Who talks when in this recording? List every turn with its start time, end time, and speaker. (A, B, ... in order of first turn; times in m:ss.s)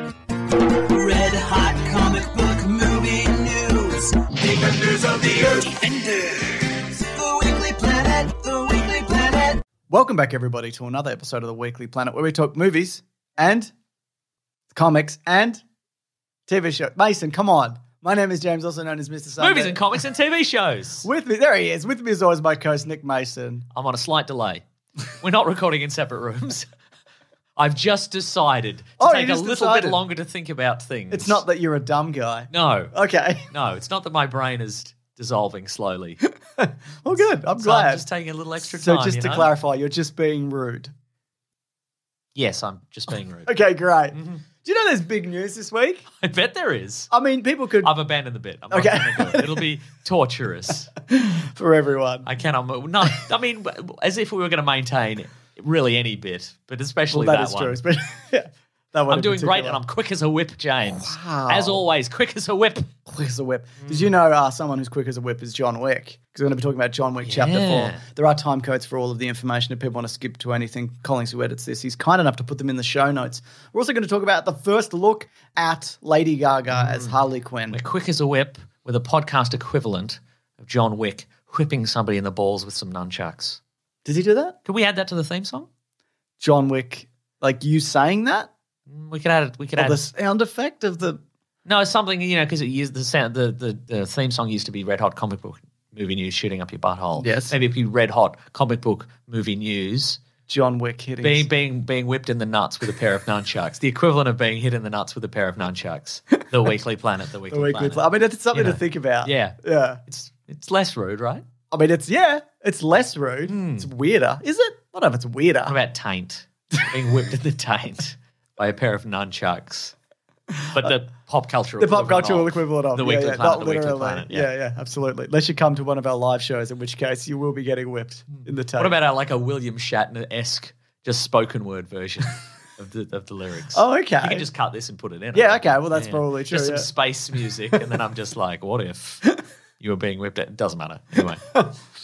0:00.5-0:09.6 A
0:09.9-0:13.7 B
0:14.7-0:15.6 B
0:16.5-0:19.8 B
0:19.4-0:21.0 C
0:21.0-0:23.6 B
0:23.7-0:26.7 C
0:27.6-0:31.4 C
0:29.0-0:30.0 B
0:31.1-0:33.5 B
0:32.5-0:32.9 C
0:33.5-0:36.2 C
0:36.3-0:38.0 B
0:37.1-0:39.5 C
0:38.6-0:40.9 B
0:42.3-0:43.5 C
0:43.4-0:46.0 B
0:44.1-0:44.4 C
0:46.2-0:47.1 C
0:47.1-0:47.9 B
0:47.8-0:50.9 C
0:48.7-0:49.6 B
0:51.0-0:52.3 B
0:52.2-0:57.8 C
0:57.1-0:59.8 B
0:59.1-1:02.9 C
1:00.9-1:01.8 B
1:03.0-1:17.8 B
1:03.8-1:04.1 C
1:07.2-1:08.0 C
1:16.7-1:17.1 C
1:17.7-1:23.6 C
1:24.0-1:24.6 B
1:24.6-1:25.7 C
1:26.4-1:28.5 B
1:28.9-1:30.0 C
1:29.8-1:31.2 B
1:31.6-1:40.2 C
1:37.2-1:37.5 B
1:40.5-1:41.5 B
1:41.2-1:51.4 C
1:47.5-1:50.0 B
1:51.7-1:55.7 B
1:53.5-1:53.9 C
1:55.6-1:59.9 C
2:00.5-2:00.9 B
2:00.7-2:04.5 C
2:01.8-2:08.9 B
2:08.8-2:19.3 C
2:13.7-2:14.4 B
2:15.3-2:16.9 B
2:19.8-2:21.4 C